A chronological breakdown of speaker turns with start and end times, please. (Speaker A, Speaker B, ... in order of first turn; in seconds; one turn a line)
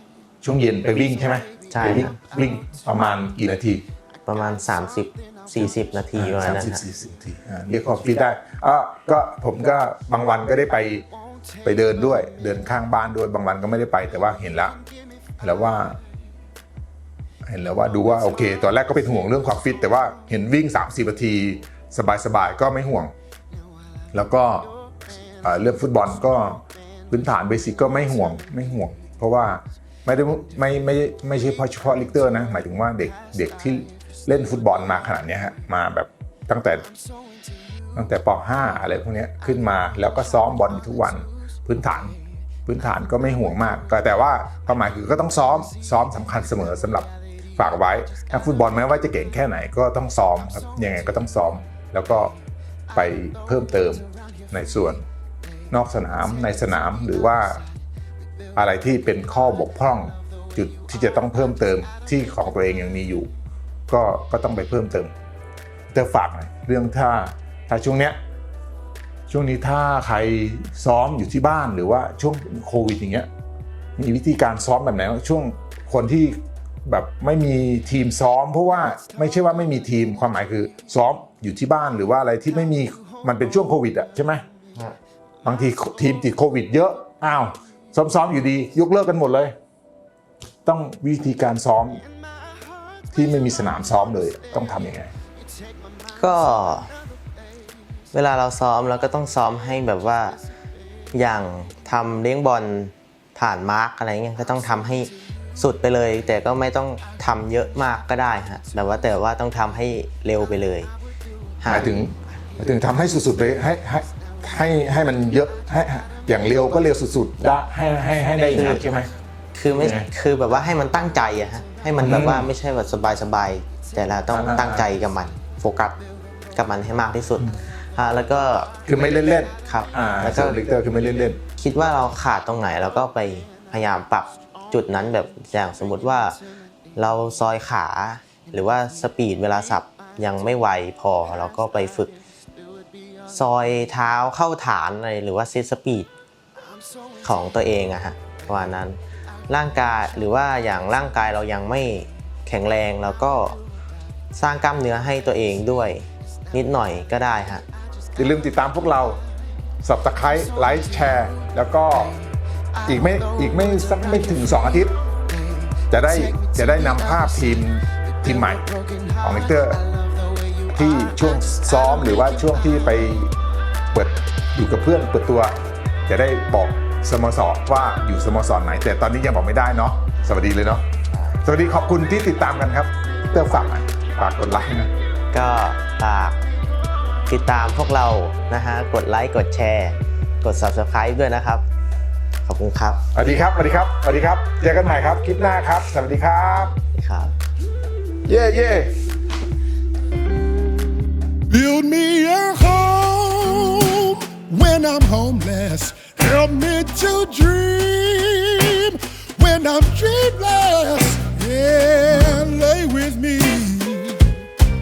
Speaker A: 0.4-3.8
Speaker B: 1.7-2.1
Speaker B: 4.2-6.8
Speaker A: 6.1-11.1
Speaker A: 11.6-14.8
Speaker A: 15.4-16.0
Speaker A: 17.4-23.1
Speaker A: 24.1-24.7
Speaker A: 25.4-36.9
Speaker A: 37.9-52.3
Speaker A: 52.9-55.0
Speaker A: 55.7-57.6
Speaker A: 58.5-63.3
Speaker A: 63.9-65.1
Speaker A: 65.9-68.2
Speaker A: 69.3-73.3
Speaker A: 74.0-84.4
Speaker A: 85.4-89.5
Speaker A: 90.6-92.0
Speaker A: 93.1-95.1
Speaker B: 96.2-96.9
Speaker B: 98.1-100.4
Speaker B: 101.1-110.9
Speaker B: 111.6-111.9
Speaker A: 111.7-119.1
Speaker B: 118.5-118.8
Speaker B: 119.5-126.0
Speaker A: 119.8-120.1
Speaker A: 122.0-122.5
Speaker A: 124.3-124.8
Speaker B: 126.5-128.7
Speaker A: 128.8-131.4
Speaker B: 129.6-130.6
Speaker B: 131.6-136.4
Speaker B: 136.9-142.1
Speaker B: 143.3-146.1
Speaker B: 147.2-149.0
Speaker B: 149.5-153.6
Speaker B: 154.3-157.6
Speaker A: 158.2-159.2
Speaker A: 159.8-162.2
Speaker A: 162.8-164.9
Speaker A: 165.9-168.7
Speaker A: 169.2-169.8
Speaker A: 170.7-173.3
Speaker A: 173.9-175.5
Speaker A: 176.1-180.8
Speaker B: 181.1-181.4
Speaker A: 181.4-184.9
Speaker B: 185.3-186.4
Speaker B: 187.3-191.6
Speaker B: 192.4-193.0
Speaker A: 193.1-196.7
Speaker B: 196.9-197.3
Speaker A: 198.2-198.9
Speaker C: 201.5-214.3